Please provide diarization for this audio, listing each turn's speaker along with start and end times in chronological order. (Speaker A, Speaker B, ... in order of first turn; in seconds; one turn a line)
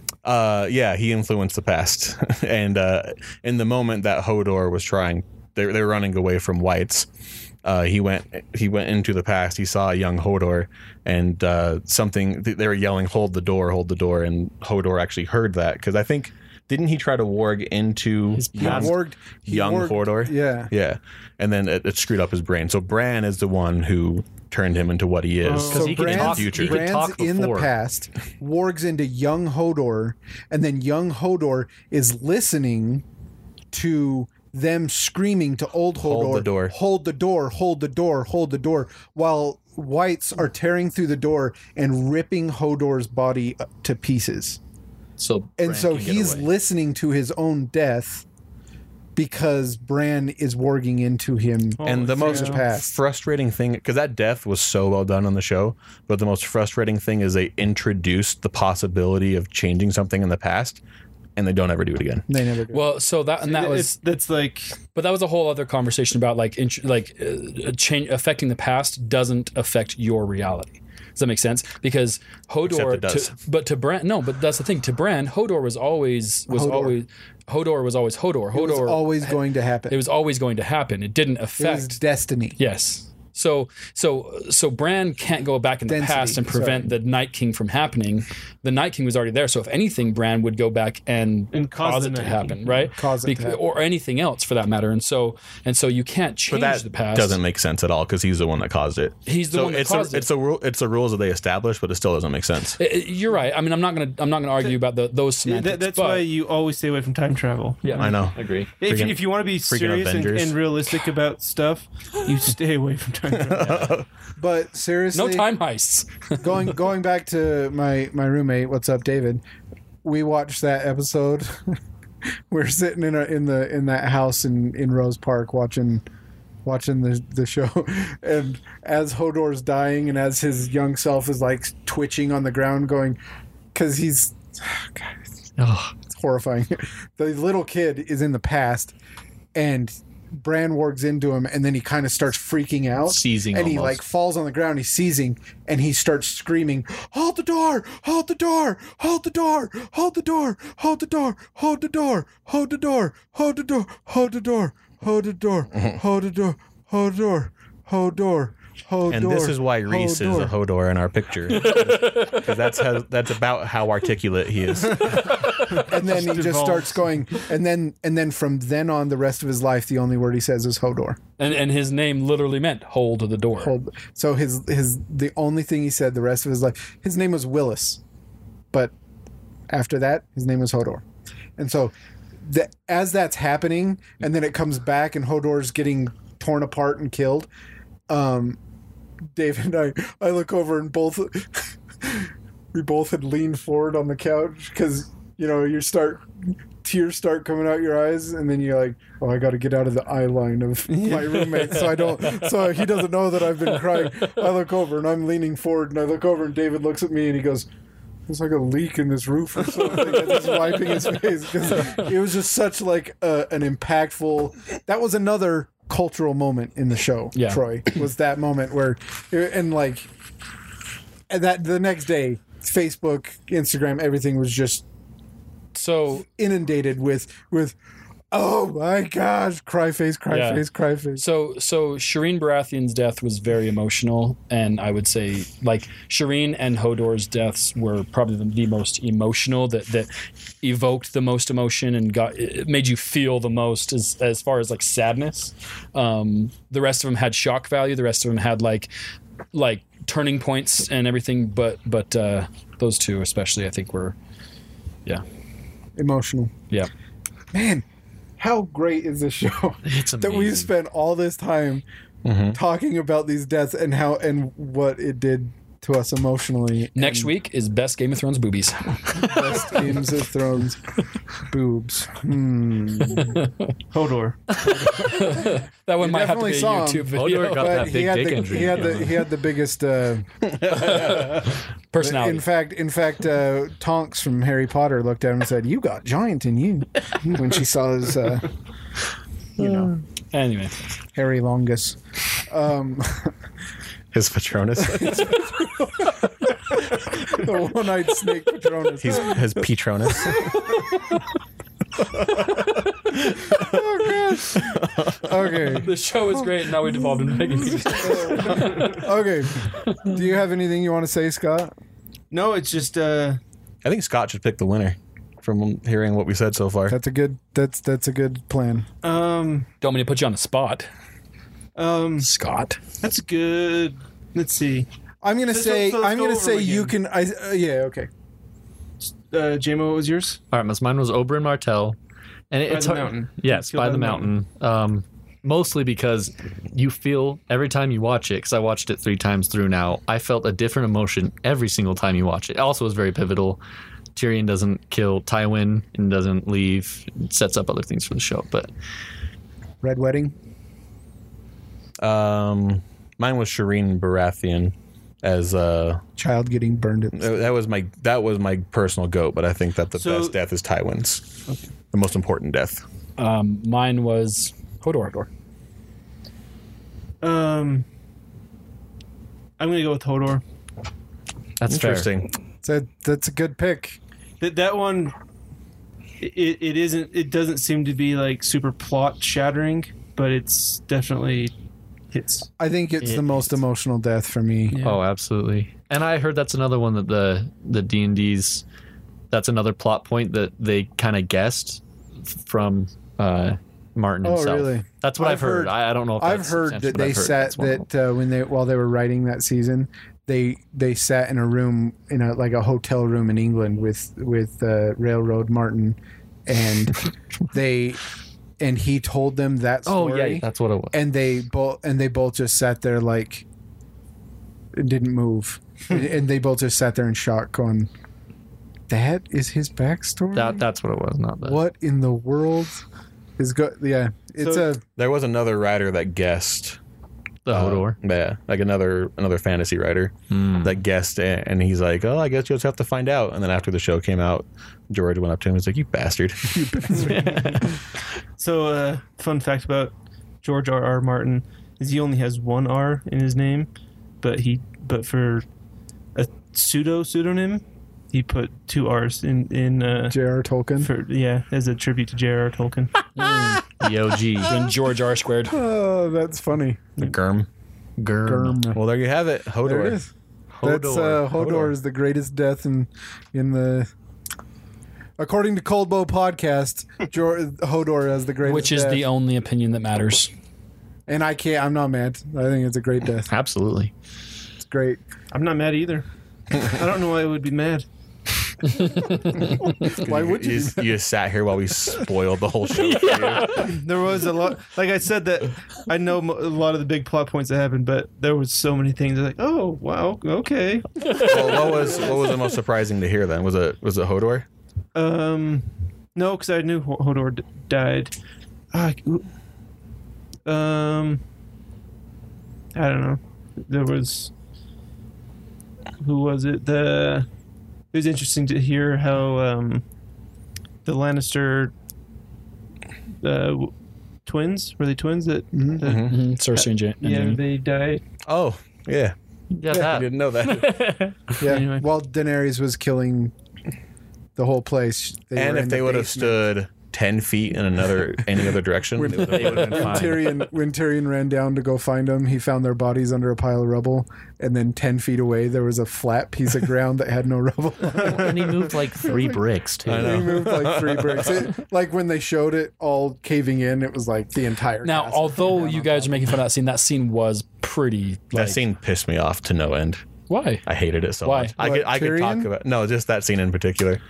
Speaker A: 0.2-7.1
Speaker A: 7.6-26.9
Speaker B: 18.4-18.9
Speaker C: 18.6-20.7
Speaker D: 25.4-25.9
Speaker B: 25.7-27.7
Speaker C: 25.7-33.0
Speaker C: 33.7-44.6
Speaker A: 36.0-36.7
Speaker B: 45.2-46.5
Speaker C: 45.6-48.2
Speaker C: 49.1-52.9
Speaker D: 51.8-52.6
Speaker A: 51.8-60.8
Speaker A: 61.4-62.2
Speaker C: 62.3-62.8
Speaker E: 62.7-64.0
Speaker D: 63.4-64.8
Speaker E: 64.9-82.0
Speaker A: 72.7-73.3
Speaker C: 76.5-77.0
Speaker C: 78.5-80.0
Speaker C: 81.6-82.6
Speaker E: 82.6-97.4
Speaker C: 85.9-86.9
Speaker D: 91.5-92.8
Speaker C: 93.0-93.6
Speaker A: 96.5-102.8
Speaker E: 99.2-100.3
Speaker E: 102.8-106.2
Speaker D: 105.4-108.2
Speaker E: 107.8-108.1
Speaker A: 108.0-110.6
Speaker B: 108.3-108.7
Speaker D: 108.8-113.9
Speaker A: 113.4-114.0
Speaker C: 114.4-115.5
Speaker E: 115.1-116.5
Speaker C: 116.4-119.4
Speaker C: 120.0-121.8
Speaker C: 122.5-126.0
Speaker C: 126.6-133.2
Speaker C: 133.7-135.2
Speaker B: 135.6-135.9
Speaker C: 136.1-138.9
Speaker C: 139.5-160.5
Speaker B: 143.0-144.0
Speaker A: 155.7-156.0
Speaker A: 159.1-165.4
Speaker E: 161.5-162.5
Speaker D: 165.0-166.9
Speaker C: 165.8-171.2
Speaker E: 171.4-173.8
Speaker C: 173.6-178.0
Speaker C: 179.7-181.0
Speaker C: 181.6-187.5
Speaker C: 188.1-188.6
Speaker C: 189.3-207.7
Speaker D: 200.9-201.8
Speaker C: 208.3-220.1
Speaker E: 217.3-217.6
Speaker C: 221.3-224.8
Speaker E: 225.7-226.2
Speaker C: 226.2-227.8
Speaker C: 228.3-231.2
Speaker E: 230.3-230.6
Speaker E: 231.2-240.1
Speaker E: 240.6-248.9
Speaker E: 249.5-254.2
Speaker C: 256.0-256.5
Speaker C: 257.5-257.8
Speaker C: 258.4-261.8
Speaker B: 259.8-260.7
Speaker A: 262.2-262.6
Speaker C: 262.5-267.3
Speaker E: 266.9-269.8
Speaker C: 269.1-270.8
Speaker C: 271.4-273.4
Speaker E: 273.1-273.5
Speaker D: 273.9-274.6
Speaker E: 274.7-277.9
Speaker C: 274.8-281.4
Speaker B: 277.1-279.2
Speaker A: 280.6-281.4
Speaker E: 280.9-281.2
Speaker E: 281.9-282.5
Speaker C: 282.0-288.5
Speaker C: 289.6-289.9
Speaker E: 290.3-290.8
Speaker C: 291.1-293.3
Speaker A: 294.1-295.7
Speaker C: 294.8-299.4
Speaker A: 299.0-300.8
Speaker A: 302.1-305.6
Speaker C: 303.4-311.7
Speaker E: 305.7-309.0
Speaker D: 308.6-308.9
Speaker D: 312.3-313.4
Speaker A: 313.8-316.9
Speaker C: 316.9-318.9
Speaker D: 319.0-319.7
Speaker E: 319.8-320.9
Speaker D: 321.8-322.3
Speaker E: 322.2-322.8
Speaker D: 323.0-324.9
Speaker C: 325.2-328.1
Speaker D: 325.5-326.9
Speaker D: 329.0-330.4
Speaker B: 330.5-331.9
Speaker B: 332.5-343.6
Speaker D: 332.7-334.3
Speaker B: 344.1-348.7
Speaker C: 349.8-350.3
Speaker A: 352.0-356.0
Speaker C: 356.2-357.4
Speaker A: 357.1-361.3
Speaker D: 359.9-360.4
Speaker A: 361.9-362.8
Speaker E: 363.2-365.3
Speaker D: 367.2-367.9
Speaker D: 369.6-370.4
Speaker B: 371.6-372.1
Speaker A: 371.7-372.3
Speaker C: 372.6-374.0
Speaker D: 374.4-375.1
Speaker D: 376.2-381.5
Speaker D: 382.1-382.5
Speaker C: 382.6-384.8
Speaker D: 384.7-385.0
Speaker B: 384.8-388.6
Speaker B: 389.3-397.9
Speaker C: 394.2-408.0
Speaker C: 408.6-413.4
Speaker B: 409.9-411.0
Speaker C: 414.7-417.9
Speaker C: 418.9-420.6
Speaker B: 420.3-421.6
Speaker C: 421.4-422.8
Speaker C: 423.4-424.8
Speaker D: 424.4-424.6
Speaker A: 424.9-426.8
Speaker B: 427.4-428.0
Speaker A: 427.5-437.0
Speaker B: 430.3-430.7
Speaker C: 436.4-437.8
Speaker B: 437.1-437.8
Speaker D: 438.4-443.7
Speaker D: 444.2-445.4
Speaker D: 446.1-450.1
Speaker C: 450.1-450.9
Speaker D: 450.8-452.9
Speaker E: 453.1-453.6
Speaker B: 453.6-454.7
Speaker E: 454.4-455.6
Speaker C: 455.5-456.9
Speaker A: 457.0-457.5
Speaker B: 458.0-458.6
Speaker C: 458.2-458.8
Speaker A: 458.7-460.0
Speaker C: 459.6-460.1
Speaker B: 460.5-461.7
Speaker C: 460.6-463.9
Speaker C: 465.2-469.0
Speaker E: 468.4-470.3
Speaker C: 471.1-473.3
Speaker B: 473.3-473.9
Speaker C: 474.6-475.0
Speaker D: 475.3-477.8
Speaker E: 478.6-479.8
Speaker A: 479.7-483.7
Speaker C: 479.8-481.0
Speaker B: 482.9-483.8
Speaker D: 483.5-492.3
Speaker A: 491.2-494.4
Speaker D: 494.9-498.1
Speaker D: 498.7-499.3
Speaker D: 500.4-501.2
Speaker D: 502.7-504.3
Speaker D: 506.0-507.3
Speaker D: 507.9-509.8
Speaker D: 510.8-511.7
Speaker D: 513.2-513.7
Speaker D: 514.2-518.0
Speaker C: 515.5-515.8
Speaker A: 515.8-516.1
Speaker E: 516.0-517.4
Speaker A: 518.2-519.1
Speaker B: 519.5-521.4
Speaker C: 519.7-520.0
Speaker A: 519.7-520.8
Speaker C: 521.4-523.3
Speaker D: 521.4-521.9
Speaker C: 524.4-526.5
Speaker A: 525.4-530.0
Speaker C: 528.9-546.1
Speaker B: 529.0-530.4
Speaker B: 537.9-540.4
Speaker A: 539.9-541.5
Speaker E: 544.8-548.6
Speaker A: 548.3-550.0
Speaker E: 550.3-550.6
Speaker A: 550.6-554.0
Speaker E: 551.2-551.5
Speaker C: 551.6-552.5